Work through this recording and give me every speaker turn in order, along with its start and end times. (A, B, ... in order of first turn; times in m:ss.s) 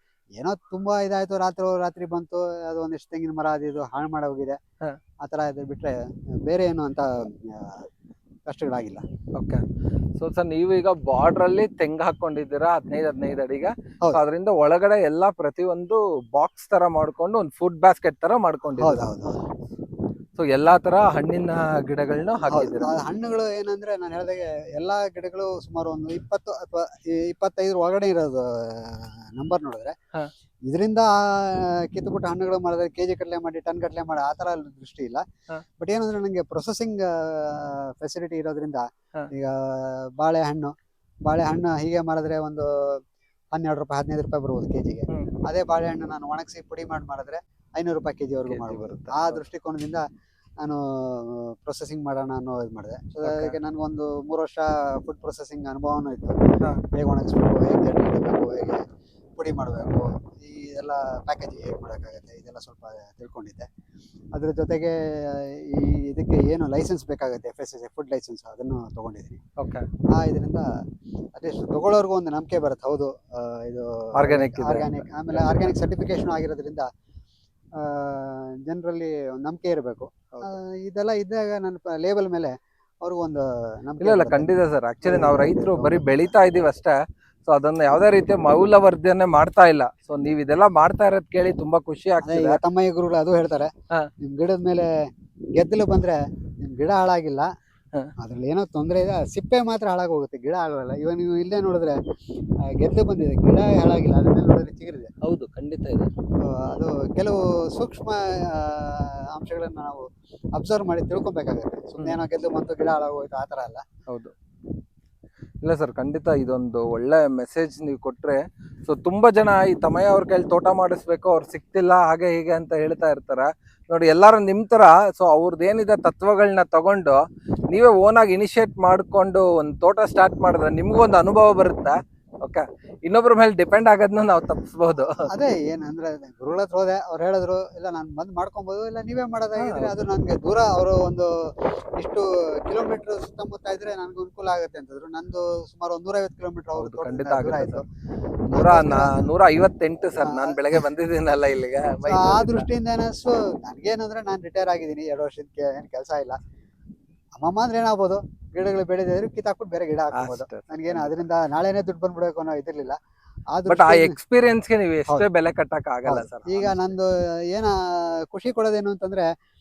0:00.4-0:04.6 A
0:05.2-0:07.9 A
0:08.5-0:09.0 A
0:09.4-0:09.6 B
0:10.2-0:19.1 B
0:18.8-0:19.4 A
0:20.4-0:22.9 B
0:22.5-0:30.0 A
0:30.7-0:35.2 A
0:35.8-0:40.7 A
0:41.3-0:43.0 A
0:43.5-0:50.0 A
0:48.5-0:49.4 B
0:50.6-0:56.4 A
0:53.2-0:53.6 B
0:56.9-1:03.7 A
1:04.4-1:09.4 A
1:09.6-1:09.9 B
1:10.1-1:10.7 A
1:11.4-1:16.9 A
1:14.2-1:15.8 B
1:17.8-1:24.5 A
1:24.0-1:32.6 B
1:25.0-1:26.3 A
1:32.2-1:33.7 A
1:34.2-1:34.9 A
1:35.6-1:37.5 A
1:38.2-1:42.0 A
1:42.8-1:45.1 A
1:45.2-1:46.1 B
1:46.4-1:53.8 A
1:54.1-1:54.3 B
1:55.6-2:07.2 B
2:07.7-2:15.3 B
2:15.2-2:27.8 A
2:19.6-2:19.9 B
2:26.8-2:27.8 B
2:28.5-2:29.2 A
2:28.5-2:32.6 B
2:30.2-2:30.8 A
2:32.1-2:36.4 A
2:37.4-2:43.0 A
2:40.2-2:41.2 B
2:43.5-2:44.2 A
2:43.7-2:47.0 B
2:46.1-2:49.3 A